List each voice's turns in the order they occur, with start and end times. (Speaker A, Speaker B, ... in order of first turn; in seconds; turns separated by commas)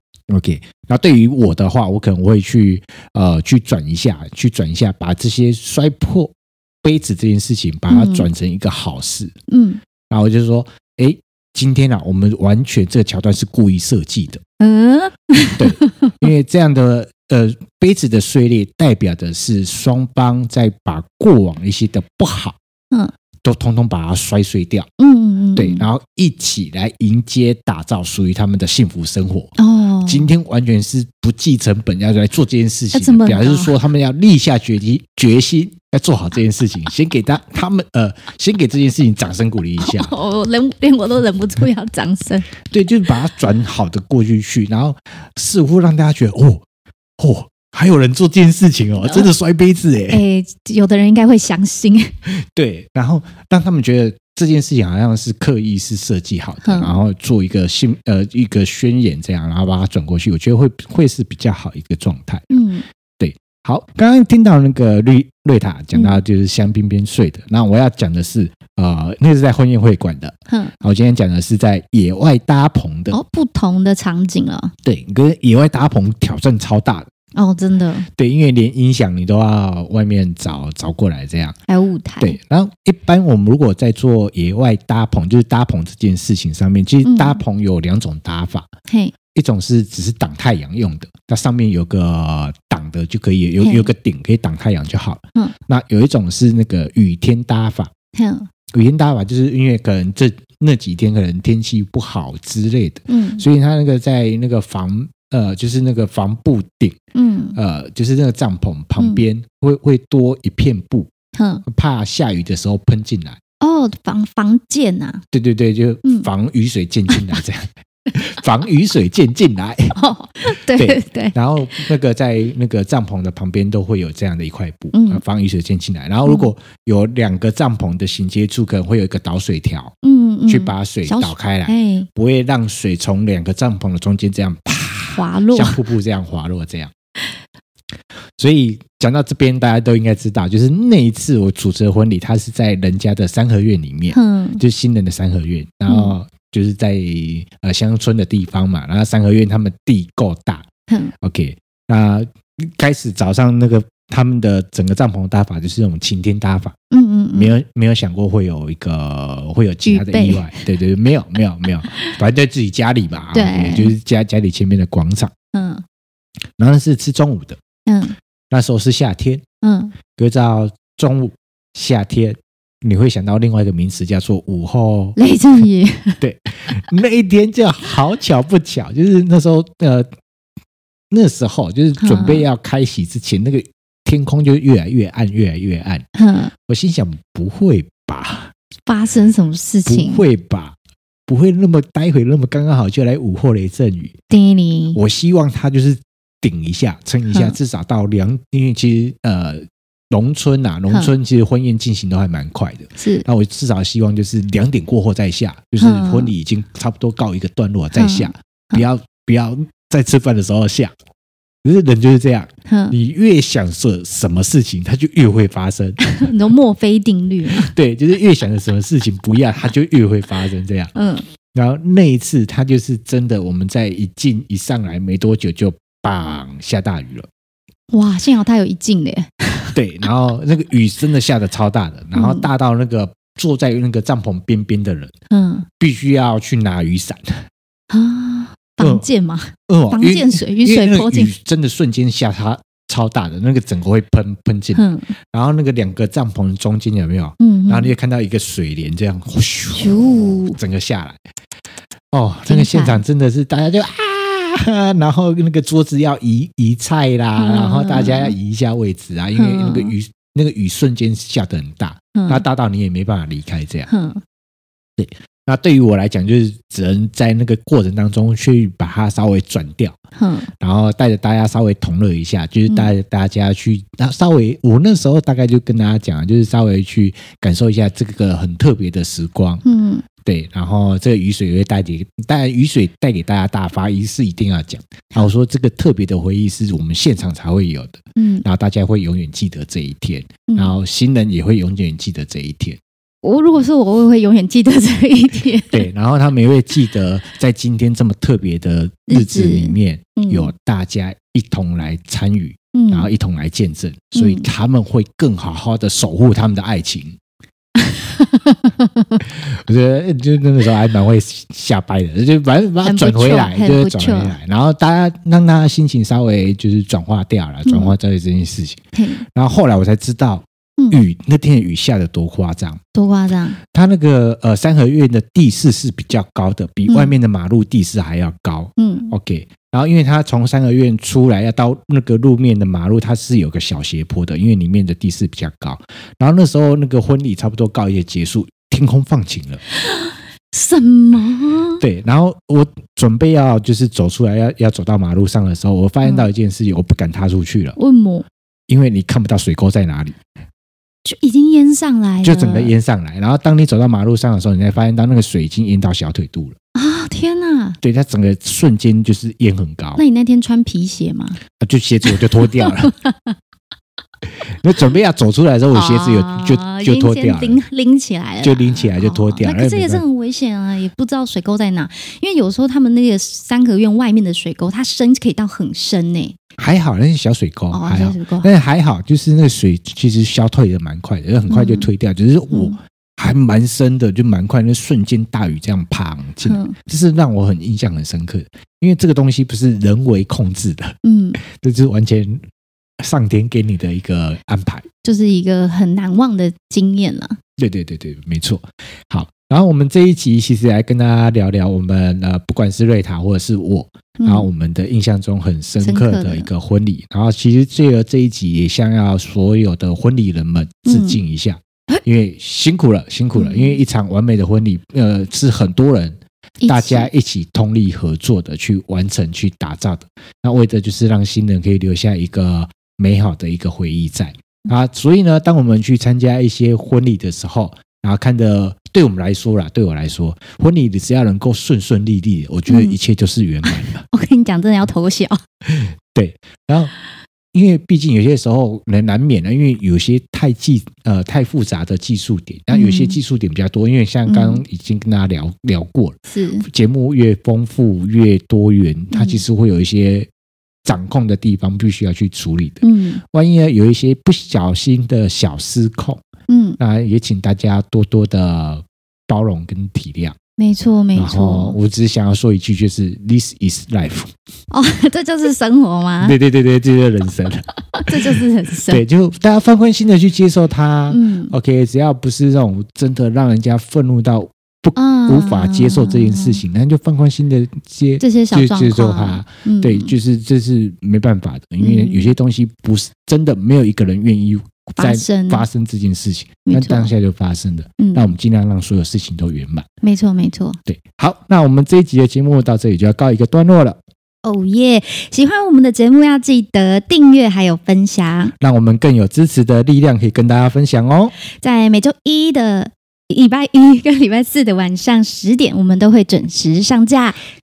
Speaker A: 0.3-9.3, Speaker B: 7.9-8.3, Speaker B: 9.5-9.8, Speaker A: 10.1-14.4, Speaker B: 14.6-16.2, Speaker A: 15.6-22.6, Speaker A: 23.4-24.9, Speaker B: 25.0-25.9, Speaker A: 25.6-29.5, Speaker B: 29.6-30.3, Speaker A: 30.1-40.1, Speaker B: 32.9-33.8, Speaker B: 39.8-42.5, Speaker A: 42.6-46.6, Speaker A: 47.2-50.2, Speaker B: 49.0-49.3, Speaker B: 50.1-52.1, Speaker A: 52.3-62.5, Speaker B: 56.6-57.0, Speaker B: 62.5-62.9, Speaker A: 63.2-73.2, Speaker B: 65.9-66.2, Speaker B: 73.1-74.7, Speaker A: 74.8-77.1, Speaker B: 77.3-78.1, Speaker A: 78.2-81.6, Speaker B: 81.7-82.4, Speaker A: 82.2-88.7, Speaker B: 87.0-87.4, Speaker B: 88.9-89.1, Speaker A: 89.3-97.9, Speaker B: 93.6-93.9, Speaker B: 98.1-98.5, Speaker A: 98.7-107.0, Speaker B: 103.1-103.5, Speaker B: 107.1-107.6, Speaker A: 107.6-111.1, Speaker B: 109.0-109.2, Speaker B: 111.3-111.6, Speaker A: 111.7-113.4, Speaker B: 113.6-115.2, Speaker A: 115.3-129.9, Speaker B: 119.9-121.4, Speaker B: 124.9-125.2, Speaker B: 130.0-132.1, Speaker A: 130.5-136.9, Speaker B: 135.1-135.8, Speaker A: 138.4-150.7, Speaker B: 144.1-144.6, Speaker B: 145.9-146.1, Speaker A: 151.2-156.8, Speaker B: 156.9-157.5, Speaker A: 157.3-165.3, Speaker B: 159.8-160.6, Speaker B: 161.8-162.2, Speaker B: 163.3-163.9, Speaker B: 165.5-165.8, Speaker A: 166.6-167.6, Speaker B: 167.9-168.2, Speaker A: 168.5-169.4, Speaker B: 169.6-169.9, Speaker A: 170.2-175.2, Speaker B: 175.2-176.2, Speaker A: 176.2-180.1, Speaker A: 181.1-186.1, Speaker B: 182.0-182.5, Speaker B: 186.2-186.5, Speaker A: 186.6-188.5, Speaker B: 188.9-190.2, Speaker A: 189.9-190.8, Speaker A: 191.3-194.2, Speaker B: 194.3-195.0, Speaker A: 194.9-210.9, Speaker B: 203.0-203.3, Speaker B: 205.8-206.3, Speaker B: 207.9-208.8, Speaker A: 211.6-216.2, Speaker B: 212.7-213.0, Speaker B: 216.0-217.7, Speaker A: 217.5-220.9, Speaker B: 220.9-221.3, Speaker A: 221.5-227.3, Speaker B: 227.9-229.8, Speaker A: 229.8-235.1, Speaker B: 232.1-232.5, Speaker B: 235.3-235.7, Speaker A: 235.8-237.4, Speaker B: 237.9-241.3, Speaker A: 238.8-239.1, Speaker A: 239.7-251.2, Speaker B: 244.7-245.1, Speaker B: 247.4-247.9, Speaker B: 249.7-250.6, Speaker A: 252.1-263.9, Speaker B: 252.5-253.0, Speaker B: 257.4-258.4, Speaker B: 259.4-259.9, Speaker B: 262.1-262.4, Speaker B: 263.9-264.2, Speaker A: 265.0-270.0, Speaker B: 270.2-270.5, Speaker A: 270.6-279.6, Speaker B: 279.6-280.1, Speaker A: 280.2-292.8, Speaker B: 288.2-288.4, Speaker B: 293.2-295.9, Speaker A: 295.7-307.2, Speaker B: 299.1-300.5, Speaker B: 302.7-303.1, Speaker B: 304.1-304.5, Speaker B: 307.8-309.2, Speaker A: 309.2-318.8, Speaker B: 312.8-314.4, Speaker B: 317.7-317.9, Speaker B: 318.9-319.2, Speaker A: 319.3-322.8, Speaker B: 322.9-323.6, Speaker A: 323.6-339.6, Speaker B: 326.9-327.1, Speaker B: 328.8-329.1, Speaker B: 339.8-341.8, Speaker A: 341.8-347.8, Speaker B: 347.8-348.2, Speaker A: 348.7-350.2, Speaker B: 351.0-352.7, Speaker A: 352.2-356.6, Speaker B: 356.8-357.8, Speaker A: 357.8-360.0, Speaker B: 360.0-361.4, Speaker A: 361.6-362.9, Speaker B: 362.1-363.4, Speaker A: 364.4-367.6, Speaker B: 365.7-376.4, Speaker A: 368.4-370.0, Speaker A: 376.6-392.4, Speaker B: 377.7-378.5, Speaker B: 381.5-381.9, Speaker B: 382.5-382.8, Speaker B: 386.5-386.8, Speaker B: 391.0-391.4, Speaker A: 393.0-394.9, Speaker B: 395.0-397.4, Speaker A: 397.6-434.0, Speaker B: 404.2-404.5, Speaker B: 405.8-406.5, Speaker B: 410.9-411.2, Speaker B: 413.4-413.8, Speaker B: 416.6-417.1, Speaker B: 432.7-433.0, Speaker B: 433.6-435.4, Speaker A: 435.7-436.9, Speaker A: 437.5-450.3, Speaker B: 442.7-443.2, Speaker B: 444.3-444.6, Speaker B: 446.3-446.7, Speaker B: 449.1-449.4, Speaker A: 450.9-456.2, Speaker B: 452.8-453.2, Speaker B: 456.5-456.8, Speaker A: 456.8-460.4, Speaker B: 460.6-461.8, Speaker A: 461.2-464.3, Speaker B: 464.7-466.4, Speaker A: 466.2-489.9, Speaker B: 467.9-469.0, Speaker B: 471.1-471.5, Speaker B: 475.0-476.6, Speaker B: 478.2-480.1, Speaker B: 481.8-482.3, Speaker B: 485.0-485.7, Speaker B: 486.6-487.1, Speaker B: 488.0-488.3, Speaker B: 490.0-490.8, Speaker A: 490.9-494.0, Speaker B: 494.4-498.5, Speaker A: 498.6-501.3, Speaker B: 501.6-507.4